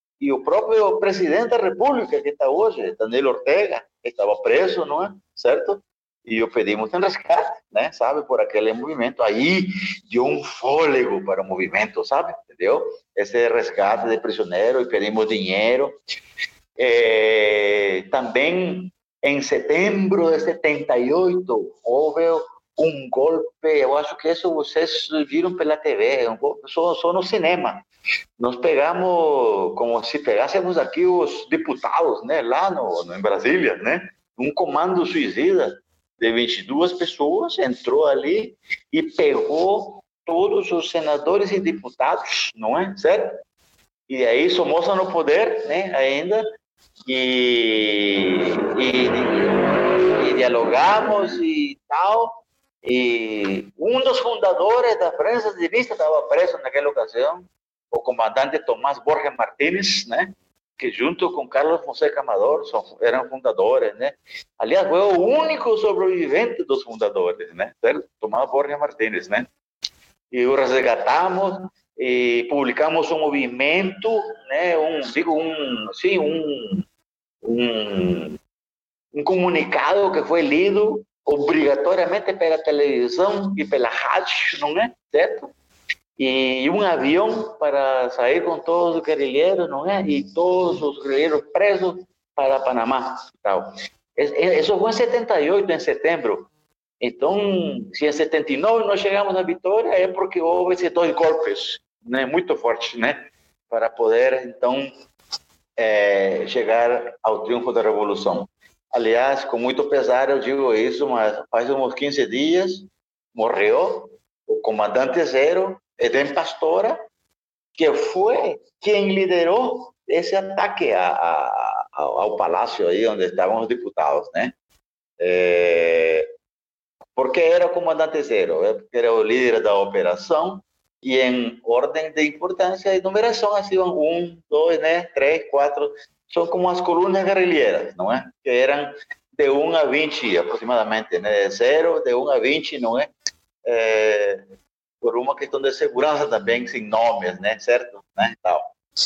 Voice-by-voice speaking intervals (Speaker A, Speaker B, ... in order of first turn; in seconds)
Speaker A: 0.2-16.0, 16.8-27.9, 28.4-43.4, 44.1-46.5, 47.0-69.5, 70.3-76.8, 77.4-78.4, 79.1-85.5, 86.2-96.5, 97.0-104.9, 105.8-117.0, 117.8-124.5, 125.2-126.3, 127.2-143.1, 143.7-144.4, 145.0-148.7